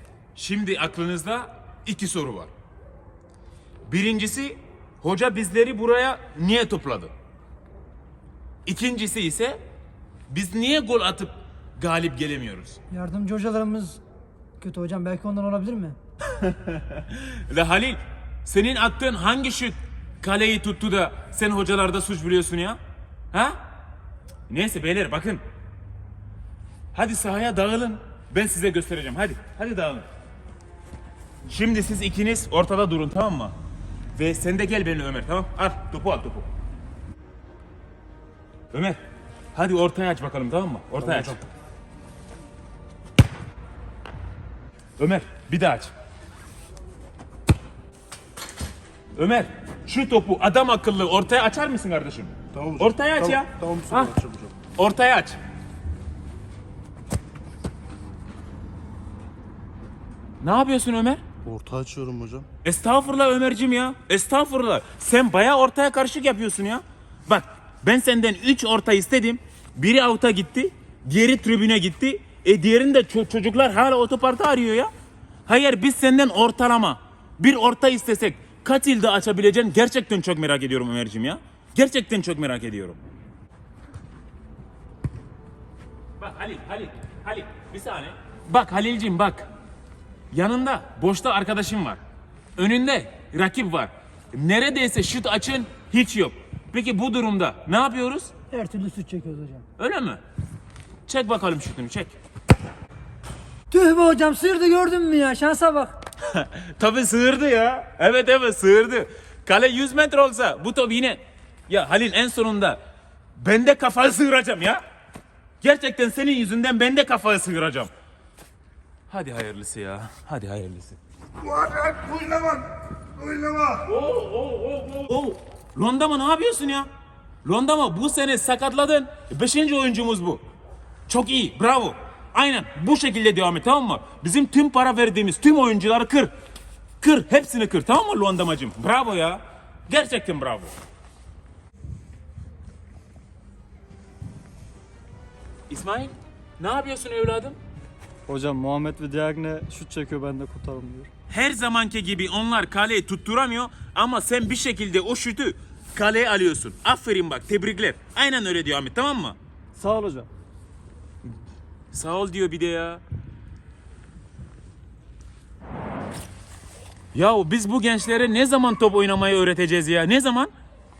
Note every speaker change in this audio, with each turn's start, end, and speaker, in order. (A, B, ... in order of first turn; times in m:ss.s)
0:00.4-0:02.5 A
0:03.9-0:07.1 A
0:08.7-0:09.6 A
0:10.3-0:12.8 A
0:12.9-0:14.0 B
0:14.6-0:16.0 B
0:16.4-0:22.8 A
0:23.3-0:23.6 A
0:24.5-0:25.4 A
0:26.9-0:30.0 A
0:31.5-0:33.5 A
0:34.2-0:36.5 A
0:38.7-0:39.0 A
0:39.5-0:41.4 A
0:41.0-0:41.4 C
0:45.0-0:45.9 A
0:49.2-0:54.1 A
0:52.5-0:54.6 C
0:54.8-0:55.4 A
1:00.4-1:01.2 A
1:01.4-1:02.5 C
1:02.6-1:14.9 A
1:15.5-1:23.0 A
1:26.2-1:29.5 A
1:30.3-1:32.0 A
1:32.6-1:38.3 A
1:38.5-1:39.6 B
1:39.8-1:40.2 A
1:41.1-1:42.1 A
1:43.7-1:46.0 B
1:46.2-1:52.8 A
1:53.4-1:54.8 A
1:55.6-1:57.9 A
1:59.1-2:01.0 A
2:01.6-2:02.6 C
2:03.2-2:03.7 C
2:03.8-2:06.9 A
2:07.4-2:10.4 A
2:11.1-2:16.3 A
2:17.0-2:20.7 A
2:25.7-2:27.6 A
2:28.3-2:31.1 D
2:31.3-2:39.4 A
2:39.8-2:40.3 D
2:41.9-2:43.0 A
2:47.1-2:50.5 A